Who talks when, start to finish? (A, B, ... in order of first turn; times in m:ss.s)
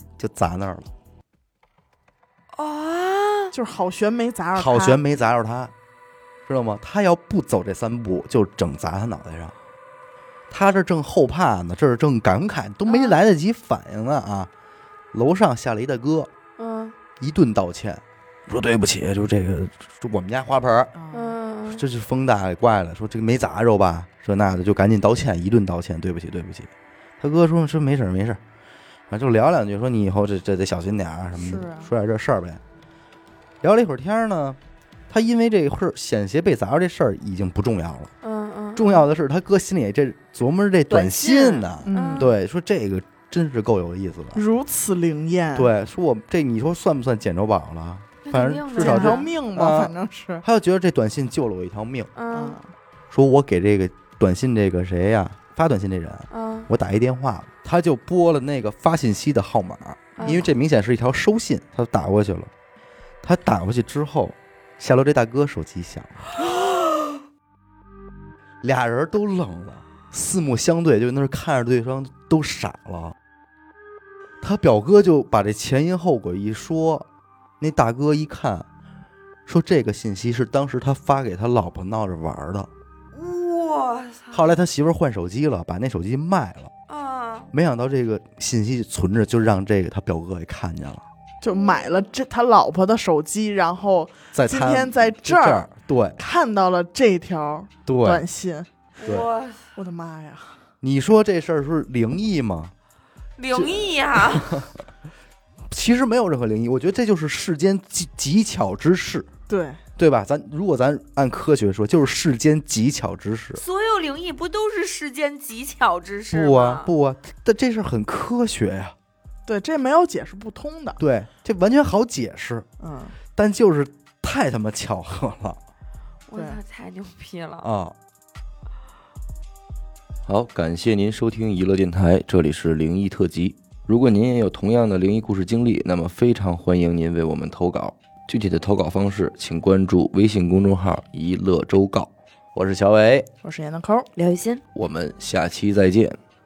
0:00.2-0:00.9 A
0:02.5-0:03.5 B
0:03.5-0:05.0 C
0:04.5-0:05.7 A
0:06.5-0:09.6 A
0:10.5-0:14.5 A
0:12.9-0:13.2 B
0:15.1-0:16.3 A
0:16.6-0:17.0 B
0:17.2-0:20.9 A
0:21.0-0:21.4 C
0:21.1-0:21.8 B
0:21.7-0:26.7 A
0:27.2-0:28.4 A
0:29.1-0:32.6 A
0:31.3-0:31.9 C
0:33.6-0:34.6 A
0:35.1-0:38.1 A
0:38.2-0:39.0 B
0:38.8-0:44.4 A
0:40.9-0:42.3 B
0:41.8-0:42.3 C
0:44.3-0:45.7 C
0:45.6-0:52.1 A
0:48.2-0:49.3 B
0:48.7-0:50.4 C
0:52.2-0:52.6 B
0:52.3-0:52.7 C
0:53.1-1:02.5 A
0:56.3-0:56.7 B
1:00.2-1:00.6 B
1:03.2-1:06.2 A
1:08.6-1:13.2 A
1:14.4-1:17.1 A
1:17.6-1:18.7 A
1:19.5-1:22.7 A
1:23.1-1:24.6 B
1:24.3-1:26.7 A
1:26.9-1:27.5 B
1:27.5-1:31.0 A
1:31.4-1:38.7 C
1:31.6-1:32.1 B
1:34.3-1:36.2 A
1:37.9-1:38.2 A
1:39.0-1:39.7 B
1:39.0-1:39.3 A
1:39.8-1:40.7 C
1:40.8-1:42.7 A
1:43.4-1:44.6 B
1:43.5-1:44.7 A
1:45.7-1:49.3 A
1:49.5-1:49.8 C
1:50.0-1:53.6 A
1:53.5-1:56.9 B
1:56.3-1:59.0 A
1:59.5-2:01.0 C
2:01.0-2:02.7 A
2:02.8-2:03.2 C
2:03.4-2:05.6 A
2:06.3-2:07.7 B
2:06.3-2:06.6 C
2:07.6-2:08.0 A
2:10.3-2:23.3 A
2:23.4-2:24.1 C
2:24.2-2:24.6 B
2:24.7-2:26.2 A